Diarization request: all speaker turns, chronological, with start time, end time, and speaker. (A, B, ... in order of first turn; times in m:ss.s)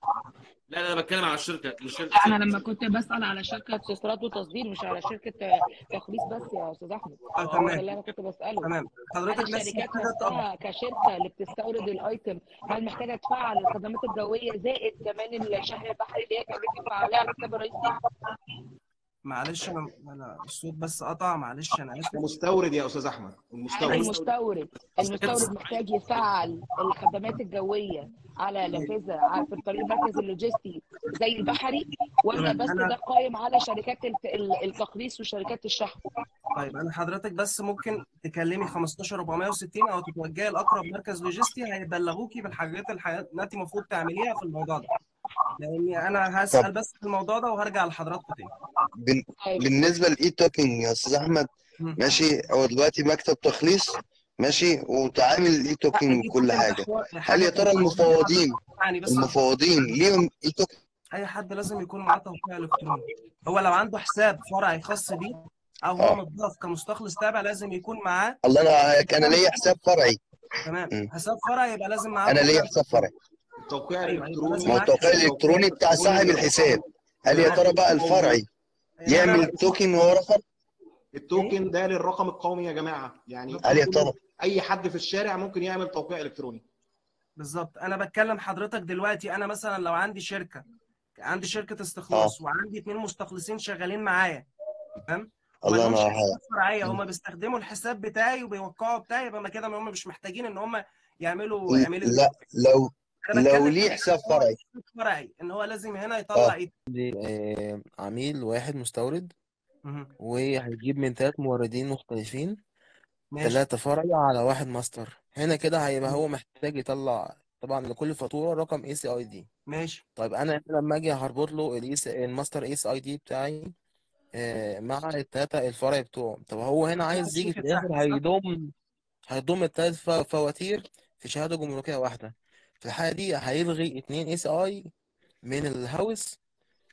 0:00.7-0:02.4 A
0:02.1-0:08.7 B
0:07.4-0:07.8 C
0:08.6-0:10.4 C
0:09.3-0:17.9 B
0:19.2-0:22.3 C
0:22.1-0:24.1 D
0:23.7-0:36.0 B
0:23.9-0:24.3 A
0:25.0-0:26.1 A
0:32.3-0:32.9 C
0:36.5-0:44.9 C
0:45.6-0:48.5 C
0:49.0-0:58.6 E
0:49.4-0:49.7 B
0:55.9-0:59.3 C
0:59.1-1:00.8 E
1:01.1-1:08.4 C
1:08.4-1:10.2 E
1:10.6-1:13.1 C
1:12.3-1:13.1 E
1:13.7-1:16.8 D
1:14.0-1:15.2 C
1:14.6-1:18.4 E
1:17.3-1:17.6 C
1:17.4-1:18.4 D
1:19.0-1:19.6 C
1:19.1-1:20.4 E
1:21.1-1:26.6 D
1:23.5-1:24.1 C
1:23.6-1:24.2 E
1:27.4-1:30.6 C
1:31.2-1:34.5 C
1:35.1-1:42.3 C
1:35.6-1:37.0 E
1:41.7-1:44.6 E
1:43.2-1:46.7 C
1:46.9-1:49.3 F
1:49.8-1:50.1 C
1:50.2-1:52.6 F
1:53.3-1:53.6 C
1:53.4-1:59.5 F
1:59.7-2:00.0 C
2:00.2-2:03.7 F
2:04.3-2:08.7 F
2:07.1-2:08.2 C
2:09.3-2:14.9 F
2:15.4-2:16.4 F